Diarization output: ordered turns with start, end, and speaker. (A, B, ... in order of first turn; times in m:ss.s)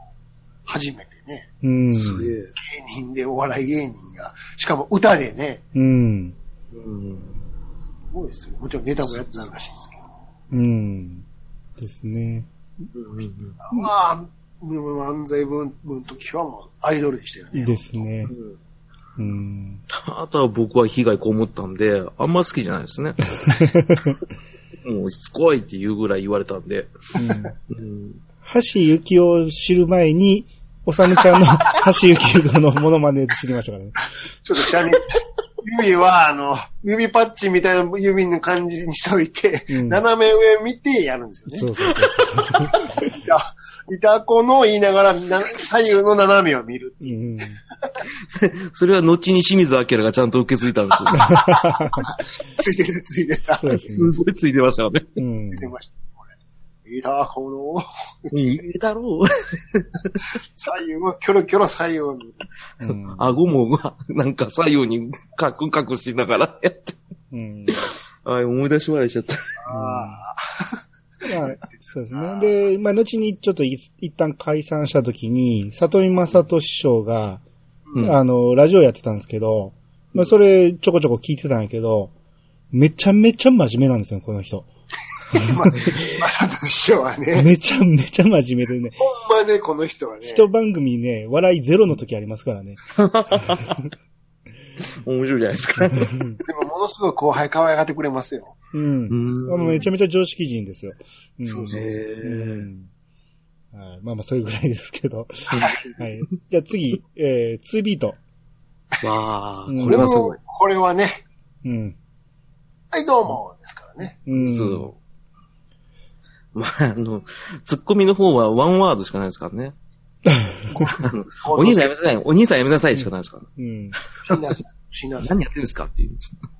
0:00.6-0:01.5 A
0:01.6-0:02.3 B
0:01.9-0:02.5 C
0:02.5-0:05.6 A
0:05.7-0:06.4 B
0:06.7-0:07.4 C
0:08.1-0:10.1 A
0:10.5-0:11.2 B
0:11.8-0:12.5 B
0:12.9-0:13.6 C
0:13.6-0:18.1 A
0:17.6-0:18.3 B
0:18.3-0:18.6 C
0:19.2-0:19.8 B
0:19.9-0:23.3 C
0:23.5-0:24.2 B
0:24.8-0:27.2 C
0:27.1-0:27.5 B
0:27.7-0:28.2 C
0:28.4-0:34.0 B
0:34.4-0:41.7 A
0:39.7-0:40.0 B
0:41.5-0:43.1 B
0:43.0-0:47.2 A
0:47.0-0:47.6 B
0:48.3-0:51.3 C
0:51.1-0:53.7 A
0:51.2-0:52.1 B
0:53.5-0:54.1 B
0:53.7-0:55.2 C
0:55.2-0:55.7 B
0:55.5-0:56.3 A
0:56.8-0:58.6 A
0:58.3-1:00.4 C
1:00.5-1:02.4 A
1:02.8-1:03.4 B
1:03.1-1:07.0 C
1:07.3-1:07.9 B
1:07.7-1:09.4 C
1:09.6-1:10.8 A
1:09.7-1:10.2 B
1:11.2-1:17.4 B
1:11.4-1:12.5 A
1:17.9-1:18.2 C
1:18.0-1:22.1 B
1:22.7-1:24.7 B
1:25.3-1:26.0 B
1:25.3-1:27.5 A
1:27.3-1:29.0 B
1:29.0-1:30.4 A
1:30.2-1:32.8 B
1:33.0-1:33.8 C
1:35.0-1:36.1 C
1:36.0-1:36.4 B
1:36.4-1:38.6 A
1:38.7-1:42.9 B
1:39.1-1:39.9 C
1:41.4-1:41.8 A
1:41.7-1:42.7 C
1:43.7-1:48.2 B
1:45.5-1:45.8 C
1:49.0-1:50.4 C
1:49.7-1:50.1 B
1:49.8-1:51.2 A
1:51.6-1:52.0 B
1:52.9-1:54.2 A
1:54.3-1:54.9 B
1:54.3-1:55.0 C
1:56.5-1:59.7 C
2:00.3-2:00.9 B
2:00.9-2:03.5 C
2:01.4-2:01.9 A
2:03.6-2:04.0 B
2:04.2-2:05.4 A
2:05.2-2:06.3 C